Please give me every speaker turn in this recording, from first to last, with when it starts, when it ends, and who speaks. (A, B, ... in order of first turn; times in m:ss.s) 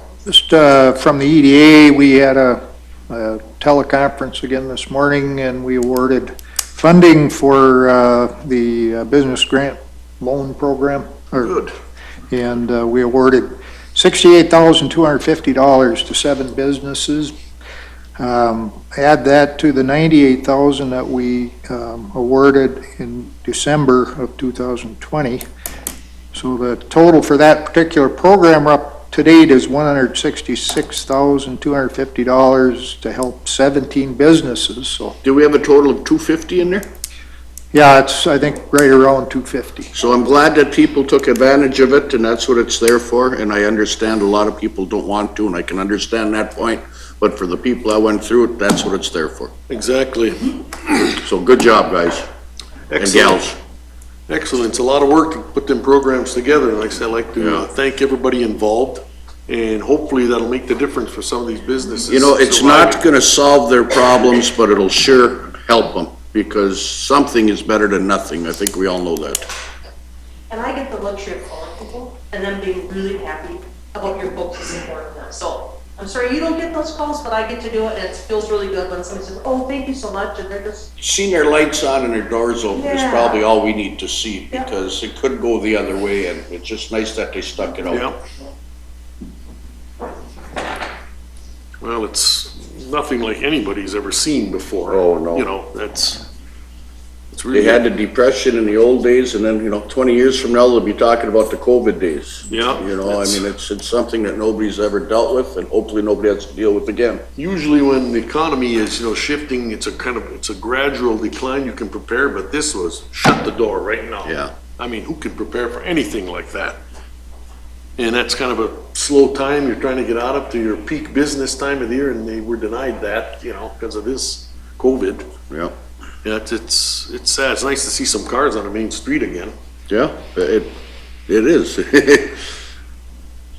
0:00.3-0:11.7 A
0:12.3-0:17.3 A
0:18.2-0:25.4 A
0:26.3-0:35.2 A
0:35.2-0:36.9 B
0:37.7-0:39.9 A
0:40.0-0:49.5 B
0:49.7-0:51.0 C
0:51.2-0:52.3 B
0:52.9-0:53.5 C
0:53.0-0:53.6 B
0:54.3-1:03.0 C
0:57.4-0:57.7 B
1:02.1-1:09.4 B
1:10.5-1:20.9 D
1:21.0-1:28.1 B
1:22.7-1:23.5 D
1:27.9-1:28.2 C
1:31.8-1:36.2 C
1:34.9-1:35.5 B
1:37.3-1:37.8 C
1:37.5-1:47.2 B
1:42.5-1:43.5 C
1:47.4-1:56.8 C
1:54.2-1:54.5 B
1:58.0-2:05.3 C
2:06.2-2:09.6 C
2:09.9-2:10.7 B
2:11.3-2:12.4 B